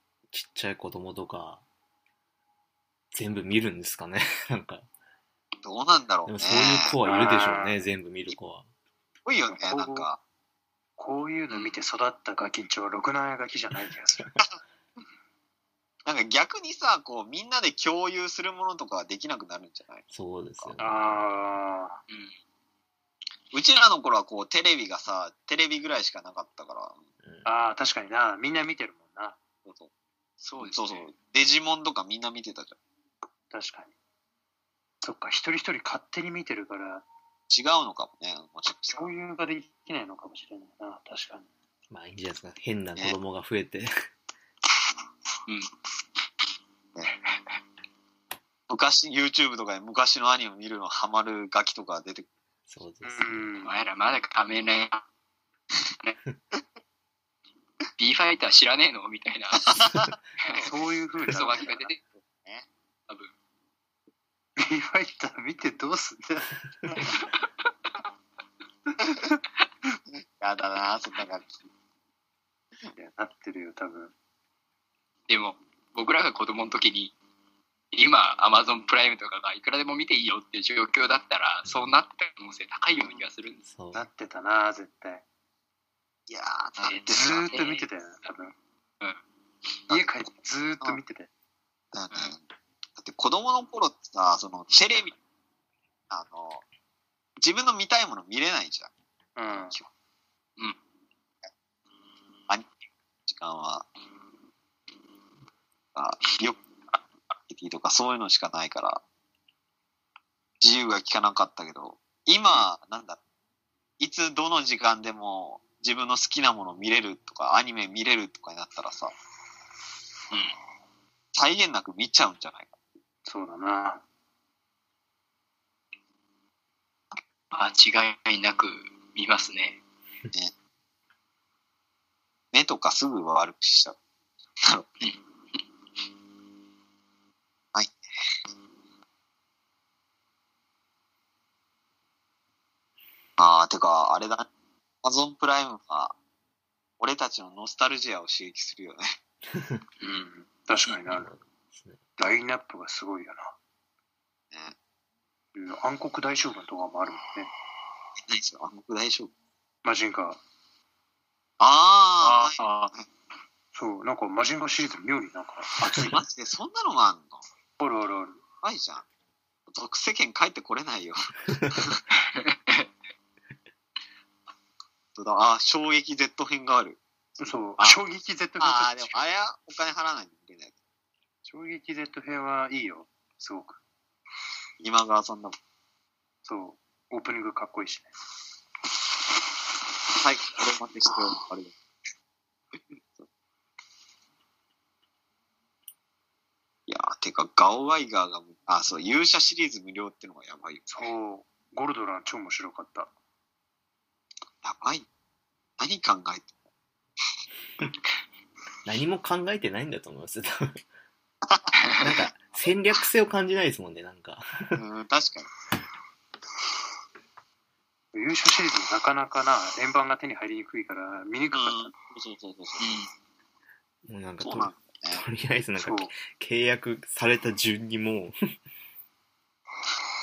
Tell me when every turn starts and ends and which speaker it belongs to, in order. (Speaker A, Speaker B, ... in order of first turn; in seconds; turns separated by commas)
Speaker A: 0.3-1.6, Speaker A: 3.1-4.9, Speaker B: 5.6-6.9, Speaker A: 6.2-8.7, Speaker C: 7.0-7.8, Speaker B: 9.2-10.2, Speaker C: 9.5-10.1, Speaker C: 11.0-14.4, Speaker D: 11.5-11.8, Speaker B: 16.1-20.1, Speaker A: 20.1-21.6, Speaker C: 20.8-22.0, Speaker D: 22.1-22.4, Speaker B: 23.5-27.0, Speaker A: 27.2-27.5, Speaker C: 27.4-29.4, Speaker B: 29.6-29.9, Speaker D: 30.4-31.1, Speaker B: 30.6-32.8, Speaker C: 33.5-33.9, Speaker C: 35.0-37.0, Speaker B: 37.5-39.1, Speaker C: 38.9-41.5, Speaker A: 41.9-43.9, Speaker B: 48.7-52.3, Speaker A: 52.7-53.5, Speaker C: 53.0-53.7, Speaker D: 53.6-55.0, Speaker D: 58.0-59.9, Speaker B: 59.6-60.8, Speaker D: 60.4-60.6, Speaker C: 60.6-61.8, Speaker D: 61.2-62.0, Speaker B: 61.5-62.6, Speaker C: 64.6-66.6, Speaker B: 70.4-71.6, Speaker C: 72.9-74.1, Speaker D: 75.3-77.1, Speaker D: 77.9-83.6, Speaker A: 81.7-81.9, Speaker A: 83.7-84.0, Speaker C: 83.9-85.2, Speaker B: 86.3-87.5, Speaker D: 86.8-87.9, Speaker C: 87.1-88.5, Speaker C: 89.9-91.3, Speaker B: 91.9-92.4, Speaker B: 93.0-95.1, Speaker B: 96.1-96.6, Speaker B: 97.4-98.9, Speaker C: 99.3-99.8, Speaker B: 99.5-99.9, Speaker B: 103.3-103.9, Speaker B: 105.9-106.6, Speaker B: 107.5-109.0, Speaker B: 110.6-113.2, Speaker B: 114.0-119.1, Speaker B: 121.3-122.7, Speaker C: 123.2-124.0, Speaker D: 127.5-129.8, Speaker B: 132.5-133.9, Speaker B: 134.6-135.1, Speaker B: 143.4-144.4, Speaker B: 145.0-146.1, Speaker B: 147.0-149.1, Speaker A: 149.5-149.8, Speaker C: 150.0-151.3, Speaker A: 150.8-152.0, Speaker C: 152.2-153.5, Speaker C: 155.5-157.5, Speaker B: 158.2-159.3, Speaker C: 159.8-160.4, Speaker B: 161.6-163.0, Speaker C: 162.2-162.7, Speaker C: 163.7-166.2, Speaker B: 165.9-167.4, Speaker C: 167.8-168.4, Speaker B: 168.6-169.0, Speaker B: 169.7-172.0, Speaker D: 172.3-172.9, Speaker B: 175.1-177.0, Speaker C: 177.4-179.2, Speaker B: 178.6-180.7, Speaker C: 181.4-183.8, Speaker B: 184.8-185.5, Speaker C: 186.4-188.1, Speaker B: 190.2-191.7, Speaker B: 192.9-193.2, Speaker B: 196.9-201.1, Speaker C: 200.9-203.1, Speaker B: 204.6-205.1, Speaker B: 205.8-206.5, Speaker A: 208.8-210.8, Speaker A: 212.0-214.8, Speaker B: 214.8-215.5, Speaker C: 218.1-221.9, Speaker B: 221.5-222.9, Speaker D: 222.8-223.1, Speaker A: 224.1-228.3, Speaker B: 224.4-225.2, Speaker C: 225.8-226.1